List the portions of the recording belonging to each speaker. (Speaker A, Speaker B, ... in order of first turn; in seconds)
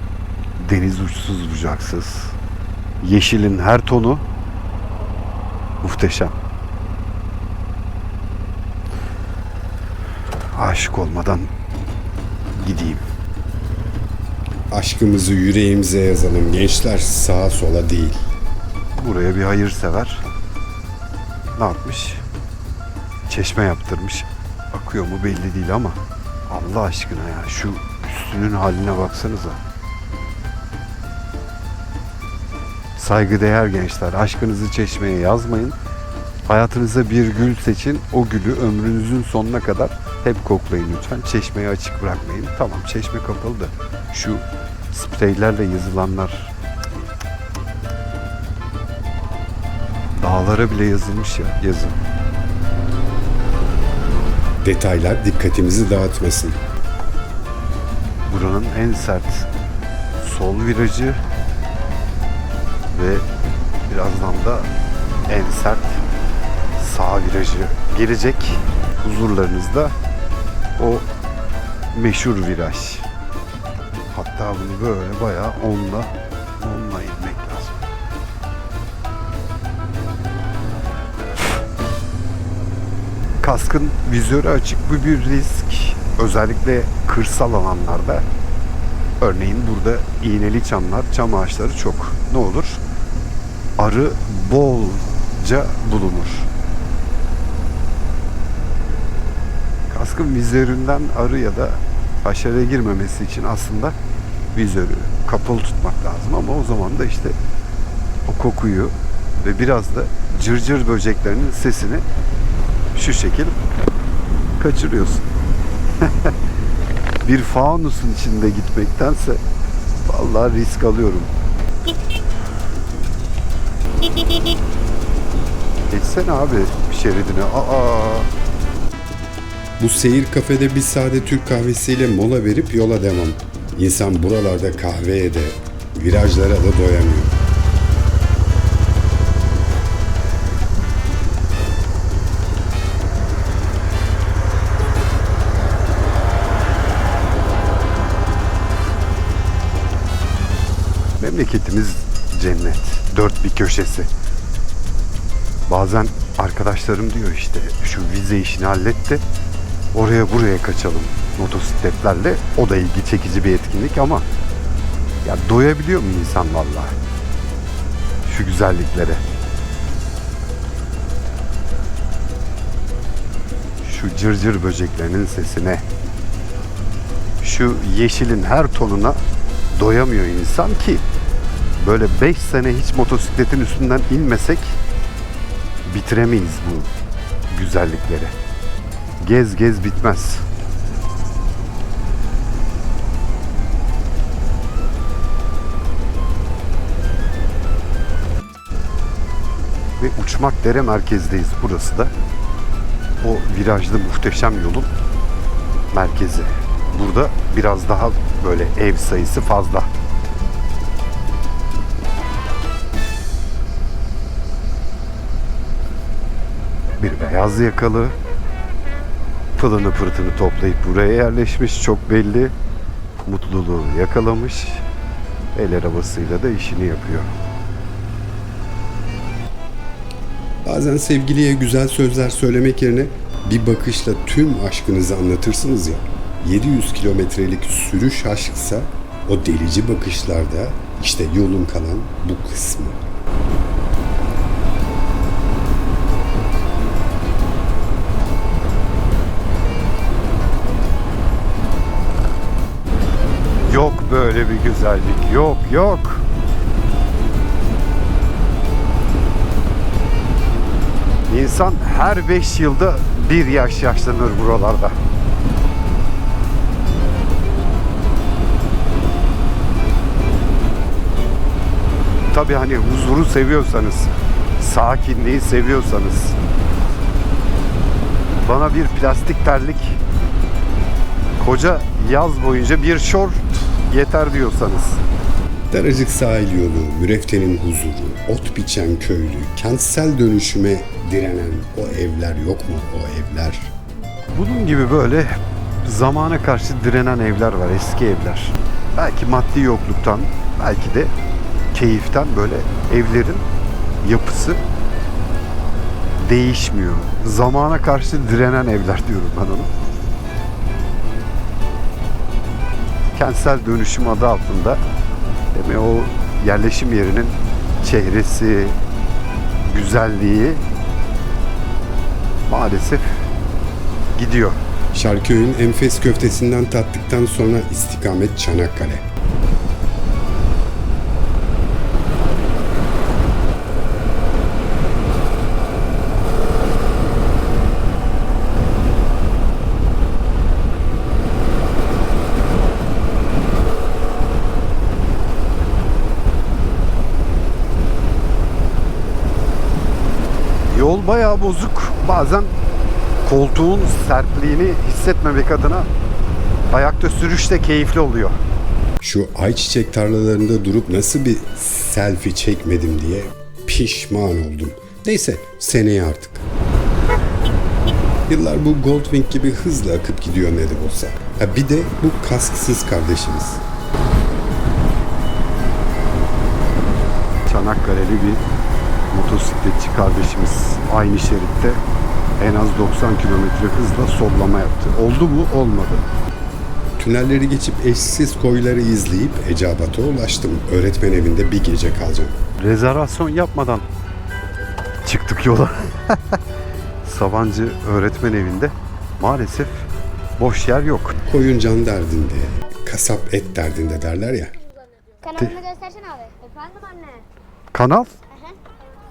Speaker A: 0.6-2.4, 3.0-4.2, 5.8-6.3, 10.5-11.5, 12.5-13.1, 18.9-20.2, 21.6-22.2, 23.3-29.6, 33.0-35.8, 36.5-46.5, 50.2-52.0, 58.3-59.5, 60.2-61.2, 62.9-63.2, 63.9-64.7, 65.3-66.0, 66.8-69.9, 70.8-71.1, 71.9-73.1, 74.1-77.8, 83.4-88.2, 89.2-92.8, 93.8-96.5, 99.9-104.0, 104.5-107.4, 108.2-112.0, 112.9-113.6, 114.6-115.3, 116.0-116.3, 117.2-119.4, 120.0-121.3, 125.9-128.3, 151.2-154.1, 155.7-159.2, 159.9-164.2, 165.2-166.9, 168.2-169.2, 173.8-175.8, 177.4-179.2, 179.7-181.0, 181.8-184.8, 185.8-186.9, 187.5-188.3, 189.2-190.4, 200.0-202.1, 203.2-204.9, 205.9-209.9, 217.0-218.2, 219.6-222.5, 223.2-224.8, 225.5-227.3, 253.6-256.2, 261.3-265.0, 272.3-276.4, 278.4-280.0, 281.4-285.0, 294.3-301.1, 301.7-303.4, 304.0-304.6, 306.2-309.7, 313.1-314.8, 315.5-318.8, 319.6-320.6, 322.5-323.3, 324.1-324.6, 350.7-352.5, 353.2-355.9, 356.7-358.4, 377.4-378.4, 379.1-381.8, 382.4-386.1, 392.6-393.9, 395.0-396.4, 397.0-401.2, 407.7-408.1
Speaker B: 14.7-18.2, 54.6-56.6, 129.8-137.3, 230.7-243.0, 285.7-293.7, 324.9-329.0, 359.0-366.4, 368.3-373.6, 387.0-392.4, 401.2-404.5
Speaker C: 405.2-407.2, 408.3-408.6